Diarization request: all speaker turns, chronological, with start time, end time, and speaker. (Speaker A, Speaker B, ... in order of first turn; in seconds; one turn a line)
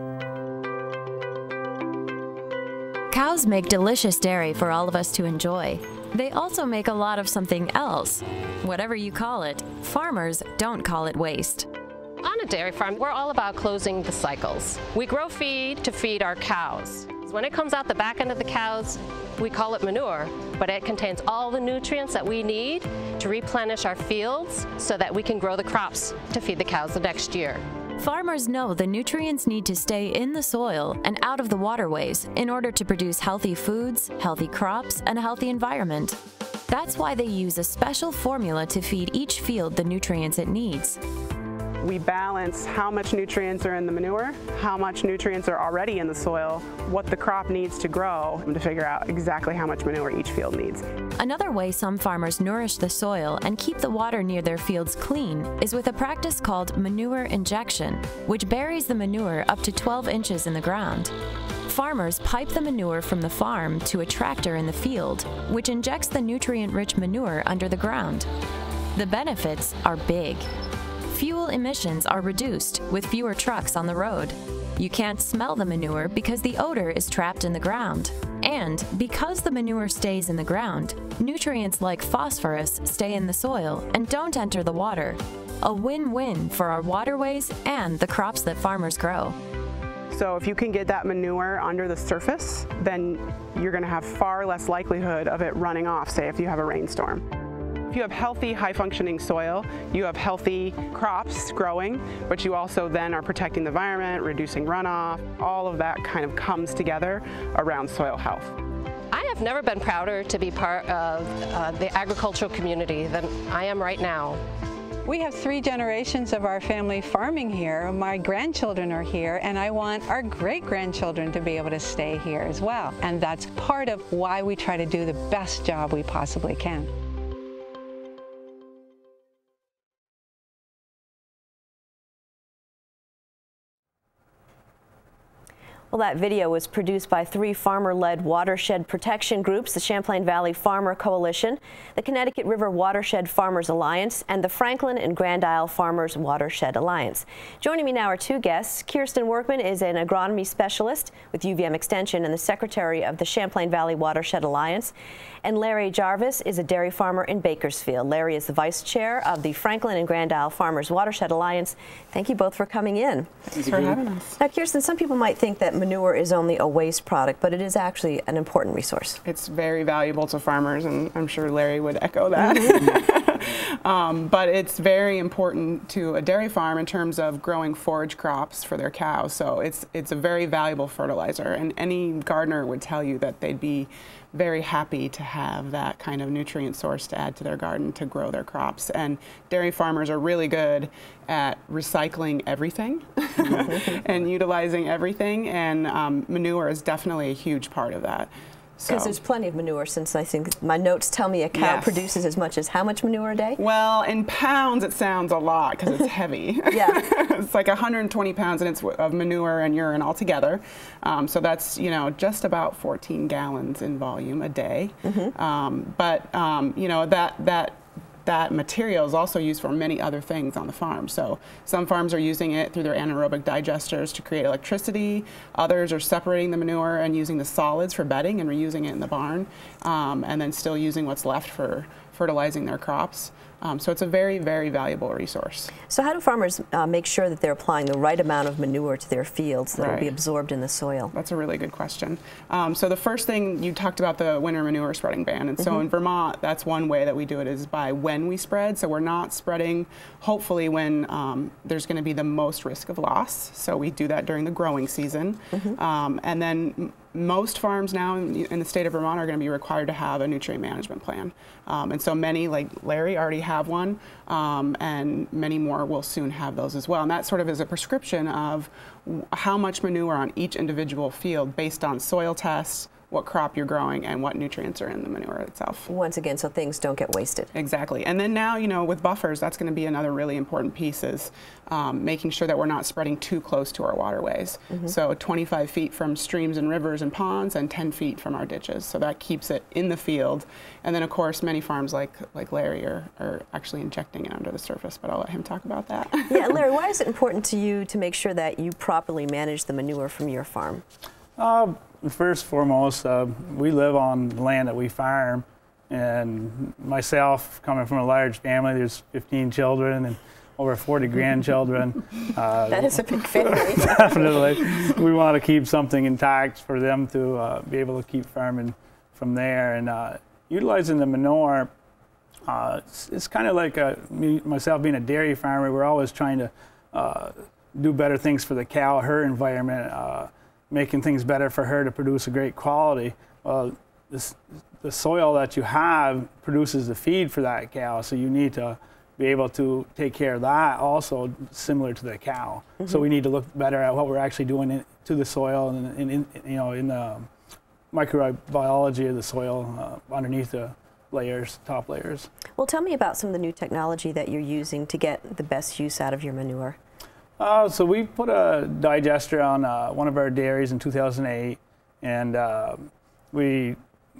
Speaker A: 3.1-11.7
Speaker B: 12.2-27.6
Speaker A: 28.0-41.0
Speaker C: 41.8-50.8
Speaker A: 51.2-61.1
Speaker A: 61.6-68.3
Speaker A: 68.9-70.4
Speaker A: 71.0-89.4
Speaker C: 90.1-97.2
Speaker C: 97.9-108.5
Speaker B: 109.1-114.4
Speaker D: 115.0-126.9
Speaker E: 135.9-154.9
Speaker E: 155.4-163.4
Speaker C: 163.5-164.4
Speaker E: 164.4-169.2
Speaker C: 169.2-199.2
Speaker E: 193.6-194.0
Speaker E: 198.9-203.6
Speaker C: 201.5-202.0
Speaker C: 203.6-235.7
Speaker E: 206.7-207.0
Speaker E: 215.0-215.3
Speaker E: 235.9-241.1
Speaker C: 239.8-240.1
Speaker C: 241.1-275.9
Speaker E: 275.9-277.5
Speaker C: 277.5-296.5
Speaker E: 296.3-300.8
Speaker F: 301.4-321.7
Speaker E: 312.7-314.4
Speaker F: 322.5-347.3
Speaker F: 347.9-352.3
Speaker E: 352.6-356.8
Speaker F: 357.4-363.8